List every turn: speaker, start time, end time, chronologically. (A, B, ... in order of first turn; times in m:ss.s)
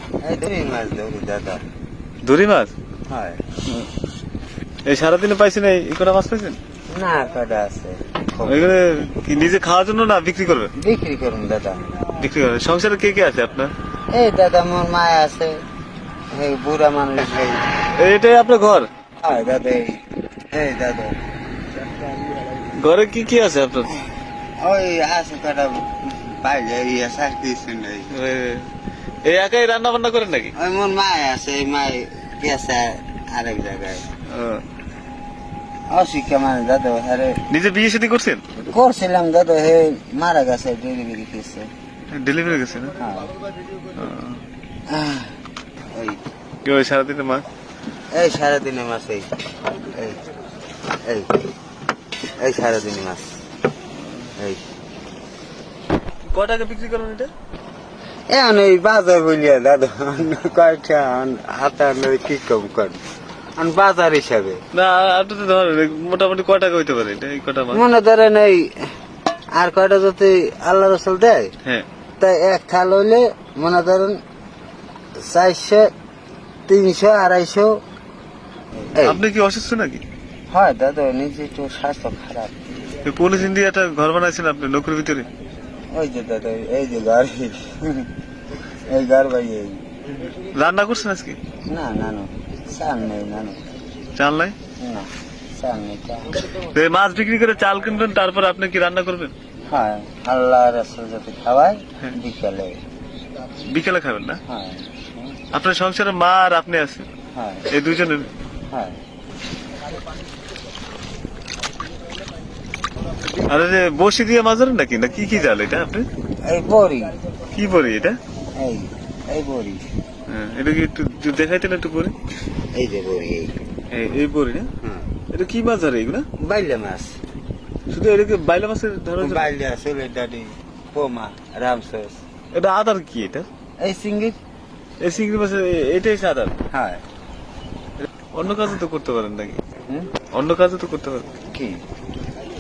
0:00.2-0:01.6 A
0:02.2-0:02.7 B
0:03.1-0:03.4 A
0:04.8-0:06.6 B
0:06.9-0:08.8 A
0:08.5-0:10.7 B
0:10.8-0:12.0 A
0:12.1-0:13.7 B
0:14.1-0:15.6 A
0:16.3-0:17.7 A
0:17.9-0:18.9 B
0:19.2-0:21.2 A
0:22.6-0:23.9 B
0:23.9-0:28.1 A
0:28.1-0:28.7 B
0:29.2-0:30.5 B
0:30.6-0:34.1 A
0:34.2-0:34.6 B
0:35.9-0:37.4 A
0:37.5-0:38.4 B
0:38.6-0:41.7 A
0:42.1-0:43.0 B
0:43.0-0:43.4 A
0:44.0-0:44.4 B
0:44.9-0:45.4 A
0:45.9-0:46.2 A
0:46.6-0:47.4 B
0:48.1-0:49.3 A
0:49.9-0:50.2 A
0:51.0-0:51.4 A
0:52.4-0:53.3 A
0:54.4-0:54.6 A
0:56.2-0:57.3 B
0:58.3-1:03.0 A
1:03.6-1:04.6 A
1:04.7-1:07.8 B
1:07.7-1:08.9 A
1:09.6-1:11.5 A
1:12.2-1:14.2 A
1:15.2-1:15.9 A
1:16.7-1:17.8 A
1:18.8-1:19.2 A
1:19.0-1:20.0 B
1:20.5-1:22.9 A
1:23.0-1:25.3 B
1:25.9-1:28.1 A
1:28.7-1:29.8 A
1:30.1-1:31.4 B
1:31.7-1:33.7 A
1:34.2-1:34.6 B
1:34.8-1:36.4 A
1:36.4-1:39.3 B
1:39.7-1:42.8 A
1:43.6-1:44.4 B
1:44.5-1:45.4 A
1:45.5-1:47.1 B
1:47.3-1:47.7 A
1:47.7-1:48.3 B
1:48.7-1:49.0 A
1:53.4-1:56.1 B
1:56.4-1:57.2 A
1:57.5-1:58.2 B
1:58.6-1:59.8 A
2:00.3-2:02.2 B
2:02.7-2:03.6 A
2:03.9-2:04.7 B
2:04.8-2:05.1 A
2:05.3-2:06.2 B
2:06.4-2:07.2 A
2:07.9-2:09.5 B
2:09.2-2:12.2 A
2:12.5-2:13.5 B
2:13.8-2:14.4 A
2:15.0-2:16.6 B
2:16.7-2:17.0 A
2:18.3-2:19.6 B
2:20.3-2:21.3 B
2:21.5-2:21.8 A